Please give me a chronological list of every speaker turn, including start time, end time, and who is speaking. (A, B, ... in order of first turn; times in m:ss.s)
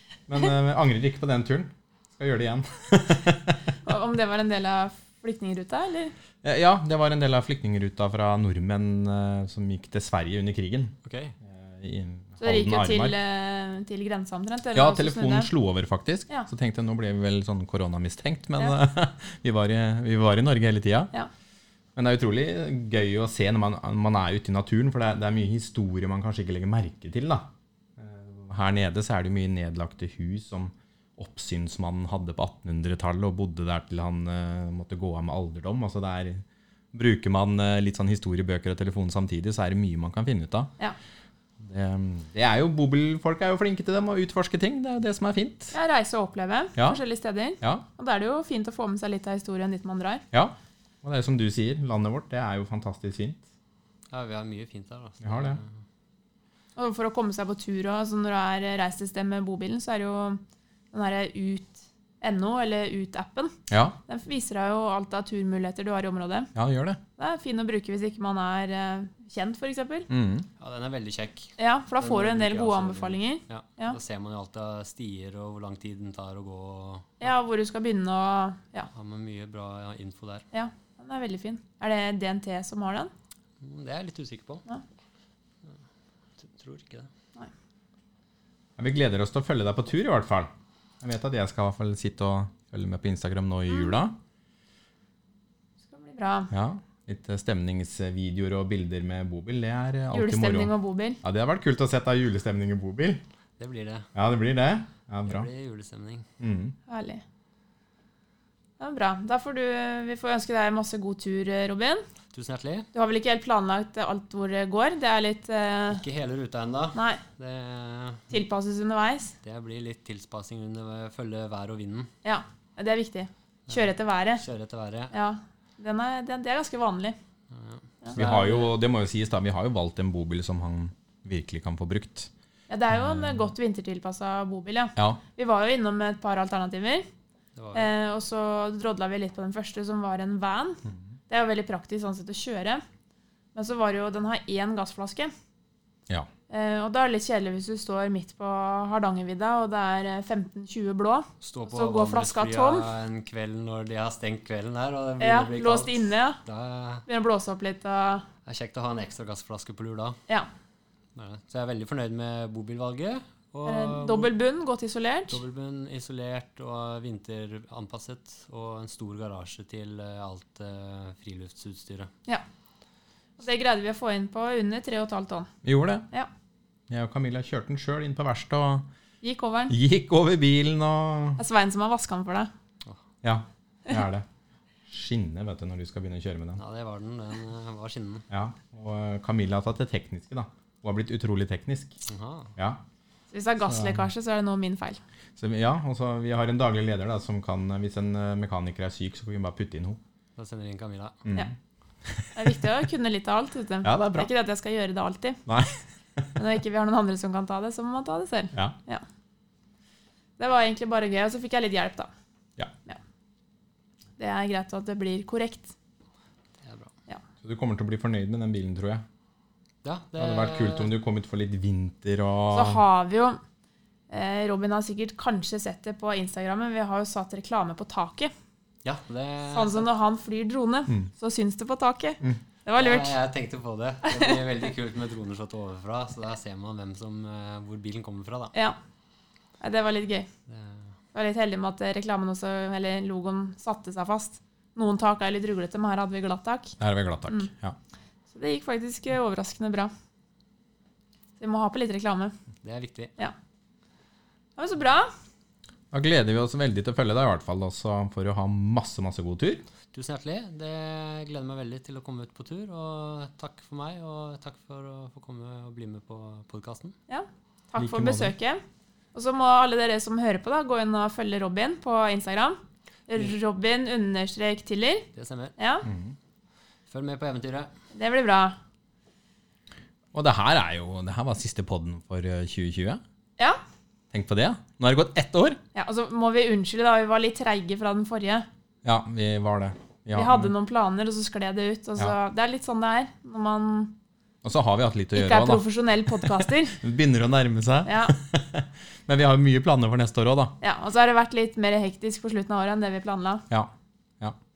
0:00.3-0:03.6 A
0:03.8-0:06.1 B
0:06.4-0:13.2 A
0:11.0-0:11.4 C
0:12.4-0:15.5 B
0:14.7-0:21.1 A
0:22.0-0:40.7 A
0:41.6-0:45.7 A
0:45.7-0:50.2 B
0:50.3-0:53.4 A
0:54.1-0:55.7 C
0:55.2-0:55.6 A
0:56.8-1:03.6 B
1:03.7-1:04.0 A
1:04.1-1:06.5 B
1:06.5-1:07.0 A
1:07.2-1:10.1 B
1:10.1-1:10.5 A
1:10.6-1:17.2 C
1:11.6-1:14.0 B
1:17.2-1:18.9 B
1:18.9-1:20.4 C
1:20.5-1:23.1 B
1:23.6-1:24.6 C
1:26.4-1:27.1 C
1:28.8-1:34.1 A
1:35.9-1:36.5 B
1:36.5-1:43.2 A
1:40.1-1:41.2 B
1:43.6-1:44.1 C
1:44.1-1:45.5 A
1:45.2-1:46.2 C
1:46.4-1:46.8 A
1:46.9-1:47.2 B
1:48.8-1:52.0 B
1:52.3-1:52.9 C
1:52.9-1:56.0 B
1:55.9-1:58.3 C
1:56.9-1:57.2 B
1:58.3-1:59.3 B
1:59.4-2:02.1 C
2:02.2-2:04.4 B
2:04.4-2:05.1 C
2:05.1-2:07.2 B
2:07.5-2:08.8 C
2:08.1-2:12.3 A
2:12.7-2:17.0 B
2:12.9-2:13.4 A
2:15.0-2:15.2 A
2:17.5-2:17.9 C
2:17.7-2:22.8 B
2:23.5-2:25.3 B
2:26.5-2:32.9 B
2:31.4-2:37.0 C
2:35.2-2:36.4 B
2:37.1-2:38.2 B
2:38.4-2:40.2 C
2:41.1-2:44.3 C
2:43.6-2:45.4 B
2:45.3-2:52.1 C
2:53.4-2:55.5 B
2:55.6-2:56.0 A
2:56.9-2:58.9 A
2:59.2-2:59.7 B
2:59.7-3:01.4 A
3:01.4-3:02.5 B
3:03.2-3:04.2 A
3:04.9-3:06.6 A
3:06.6-3:08.2 C
3:08.3-3:12.0 A
3:12.1-3:12.5 C
3:12.6-3:12.8 A
3:13.3-3:15.0 B
3:13.6-3:14.1 A
3:15.4-3:20.0 A
3:20.4-3:21.2 C
3:21.2-3:21.5 A
3:22.0-3:22.3 A
3:22.4-3:25.4 B
3:23.8-3:24.3 A
3:25.5-3:26.3 A
3:26.4-3:29.0 B
3:30.4-3:32.1 B
3:34.2-3:35.7 B
3:36.6-3:36.9 C
3:37.4-3:39.0 A
3:39.8-3:40.9 C
3:40.2-3:42.8 A
3:42.5-3:43.4 B
3:44.1-3:48.3 B
3:48.8-3:49.9 C
3:49.5-3:53.1 B
3:52.8-3:58.5 C
3:54.1-3:54.3 B
3:59.6-4:00.3 B
4:00.5-4:00.9 C
4:01.1-4:07.5 B
4:06.8-4:07.8 A
4:08.3-4:09.9 B
4:11.4-4:12.3 B
4:12.6-4:13.1 C
4:14.6-4:15.1 B
4:15.9-4:19.6 A
4:19.9-4:26.9 C
4:27.1-4:28.6 B
4:27.8-4:28.3 A
4:29.1-4:35.9 B
4:35.1-4:35.6 C
4:35.8-4:36.1 A
4:36.9-4:37.7 C
4:37.9-4:38.6 B
4:40.1-4:43.0 A
4:44.1-4:45.6 A
4:45.7-4:48.4 B
4:48.8-4:50.5 A
4:50.1-4:53.9 B
4:54.4-5:00.5 A
4:55.1-4:56.8 B
4:57.8-4:58.1 B
5:00.6-5:03.4 B
5:03.5-5:04.4 A